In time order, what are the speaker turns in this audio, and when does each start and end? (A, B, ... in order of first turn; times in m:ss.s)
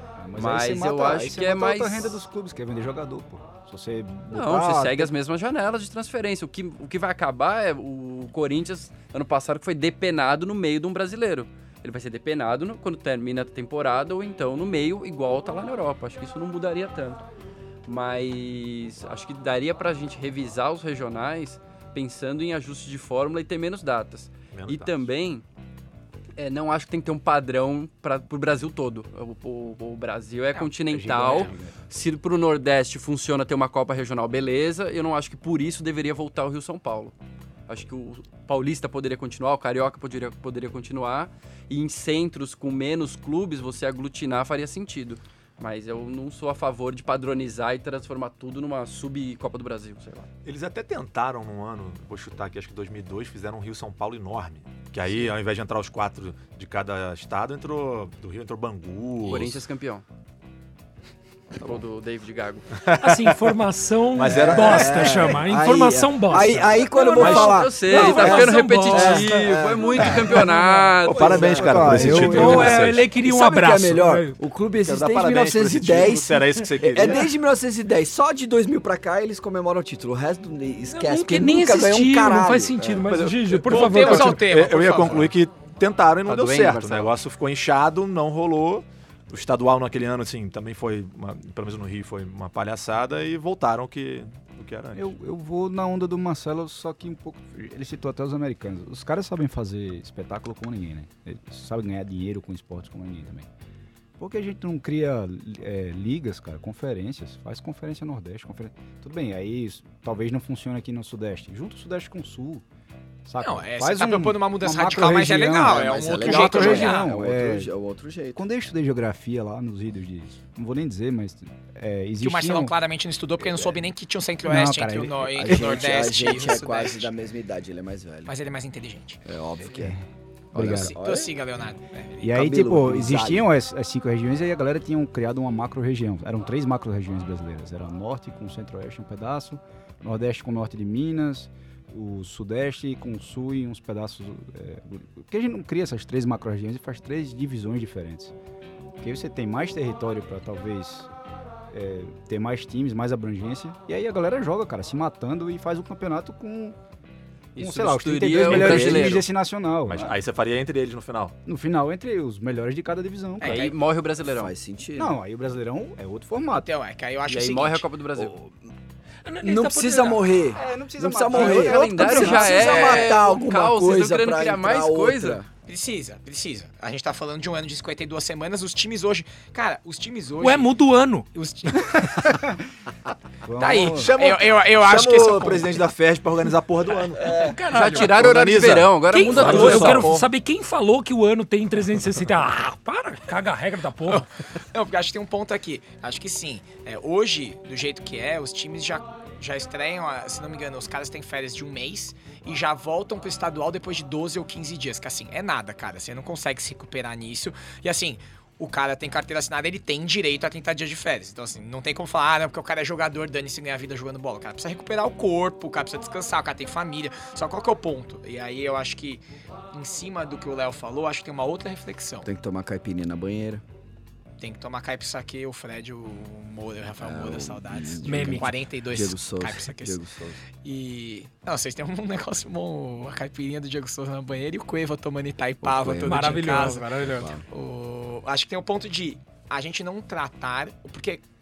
0:00.2-0:05.1 A
0:00.3-0:02.2 B
0:04.3-0:17.2 B
0:17.8-0:25.4 B
0:24.5-0:25.0 C
0:26.4-0:37.2 B
0:30.9-0:31.8 A
0:37.7-0:50.3 B
0:50.4-0:59.6 C
0:59.2-1:00.0 B
1:01.6-1:02.8 B
1:02.8-1:03.6 C
1:03.0-1:09.5 D
1:04.1-1:05.3 C
1:04.3-1:10.4 E
1:06.3-1:07.6 C
1:07.1-1:12.0 B
1:10.2-1:11.0 D
1:11.0-1:13.0 C
1:11.1-1:23.1 E
1:11.2-1:12.8 A
1:11.9-1:14.4 D
1:14.8-1:17.3 C
1:20.8-1:24.4 D
1:23.1-1:35.1 C
1:23.7-1:25.3 F
1:26.2-1:27.1 B
1:34.9-1:43.5 A
1:44.2-1:52.6 A
1:53.2-1:57.7 A
1:53.4-1:57.1 F
1:55.6-1:58.4 E
1:58.3-2:02.7 A
2:02.2-2:07.1 F
2:03.4-2:03.9 E
2:04.4-2:06.6 A
2:05.3-2:08.3 E
2:08.3-2:09.2 F
2:09.2-2:10.0 E
2:09.6-2:11.0 A
2:10.5-2:11.3 E
2:10.6-2:12.3 F
2:12.2-2:28.3 A
2:12.3-2:13.4 E
2:29.0-2:31.1 A
2:31.7-2:36.8 A
2:37.5-2:39.2 B
2:37.6-2:40.2 A
2:38.5-2:39.2 E
2:39.8-2:41.3 C
2:41.4-2:43.7 A
2:43.4-2:43.7 F
2:43.4-2:44.5 B
2:44.2-2:45.2 E
2:45.0-2:46.7 A
2:46.5-2:47.9 F
2:47.3-2:48.3 B
2:48.2-2:48.7 E
2:49.2-2:50.3 D
2:49.4-2:55.5 E
2:50.5-2:53.1 A
2:51.3-2:55.4 B
2:55.6-3:00.7 F
3:00.4-3:01.3 D
3:01.3-3:02.5 F
3:03.4-3:04.1 A
3:03.6-3:05.8 F
3:03.8-3:07.3 C
3:07.1-3:08.2 D
3:07.2-3:07.6 E
3:07.7-3:10.3 B
3:07.9-3:10.1 C
3:09.1-3:14.3 D
3:14.1-3:42.3 F
3:42.2-3:43.6 E
3:44.4-3:50.0 F
3:47.0-3:50.4 E
3:48.0-3:48.6 D
3:50.5-4:01.2 F
3:55.6-3:56.6 E
3:56.0-3:57.4 D
3:57.1-3:57.4 E